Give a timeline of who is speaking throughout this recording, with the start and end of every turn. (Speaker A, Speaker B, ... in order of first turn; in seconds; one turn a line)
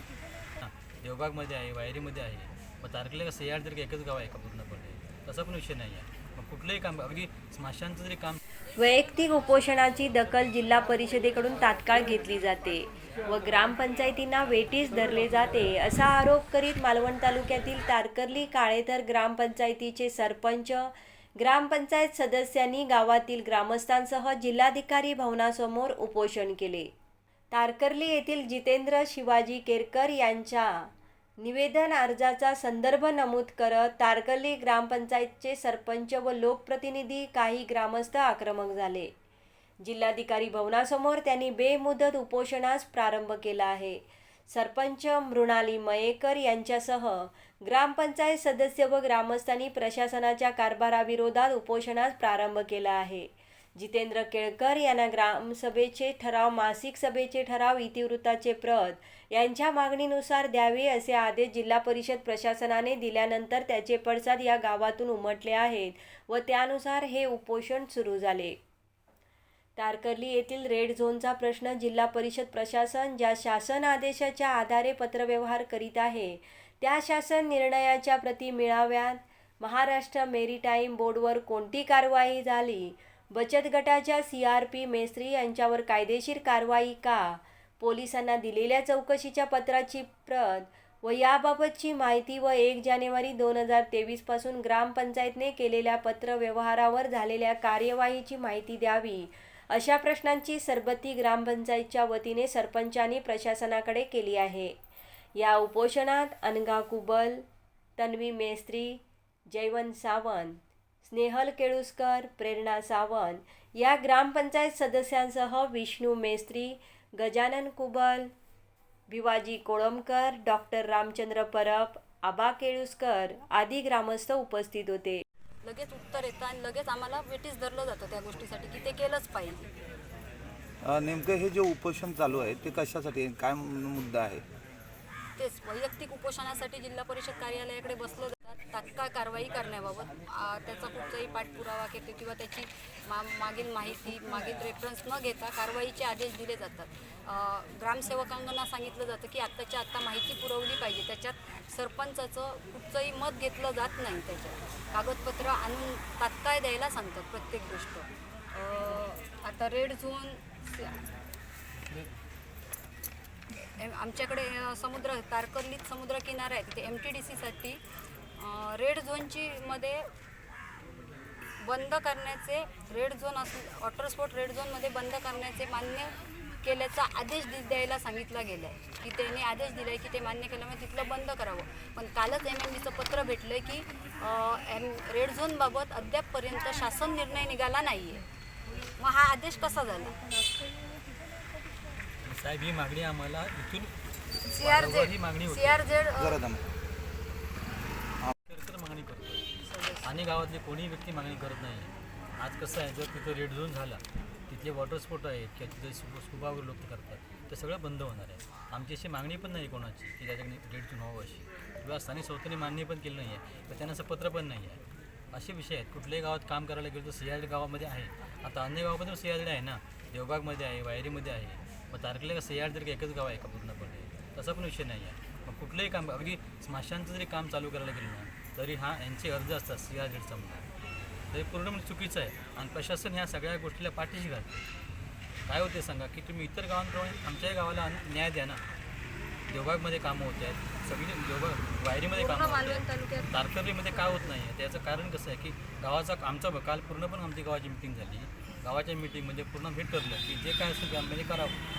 Speaker A: 0.6-8.4
Speaker B: 8.8-26.9
Speaker B: 27.5-30.9
Speaker B: 31.4-39.1
Speaker B: 39.8-68.6
Speaker B: 69.8-104.8
Speaker B: 105.4-107.4
Speaker B: 108.0-118.3
Speaker B: 119.1-125.2
Speaker C: 125.6-129.7
Speaker D: 130.8-134.4
Speaker C: 135.4-161.0
Speaker C: 163.8-167.8
Speaker C: 168.4-170.0
Speaker C: 171.6-176.1
Speaker C: 176.6-188.2
Speaker C: 189.0-190.2
Speaker A: 192.2-193.9
Speaker C: 194.5-196.4
Speaker A: 194.6-195.8
Speaker D: 196.2-196.7
Speaker A: 198.5-199.5
Speaker C: 199.7-200.1
Speaker A: 200.0-214.8
Speaker A: 215.3-230.7
Speaker A: 231.3-234.6
Speaker A: 235.5-238.6
Speaker A: 239.5-251.6
Speaker C: 242.1-244.3